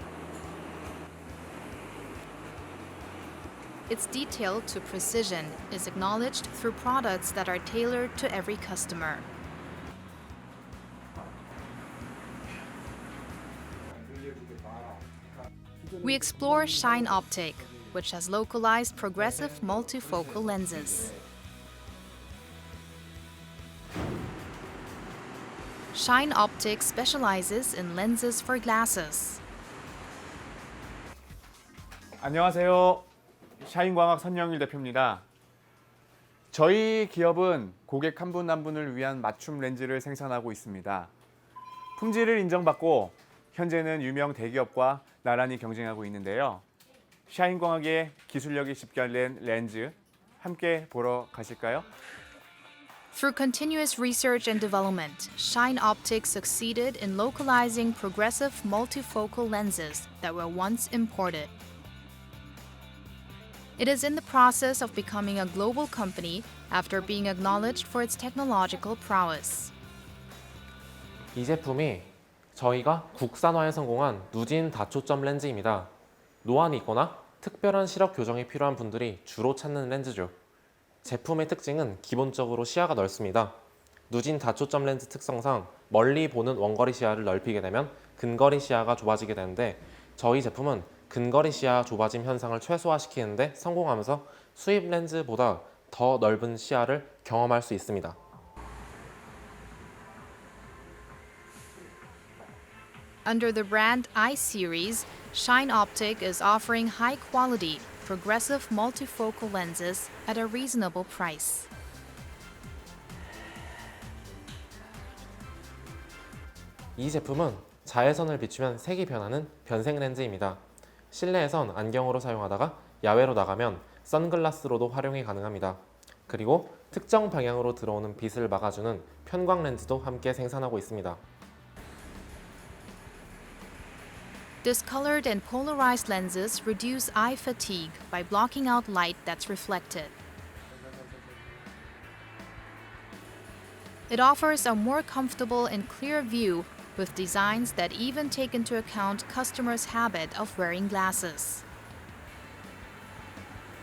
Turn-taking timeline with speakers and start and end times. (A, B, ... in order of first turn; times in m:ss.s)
0:03.9-0:09.2 A
0:16.0-0:21.1 A
0:25.9-0:29.4 A
0:32.2-0:33.1 B
0:33.6-0:35.2 B
0:36.5-0:41.1 B
0:42.0-0:46.6 B
0:47.3-0:51.9 B
0:53.1-1:01.5 A
1:03.8-1:09.7 A
1:11.3-1:15.9 C
1:16.4-1:20.4 C
1:21.0-1:23.6 C
1:24.1-1:38.2 C
1:43.2-1:51.7 A
1:57.0-2:11.2 C
2:14.6-2:20.1 A
2:24.1-2:31.6 A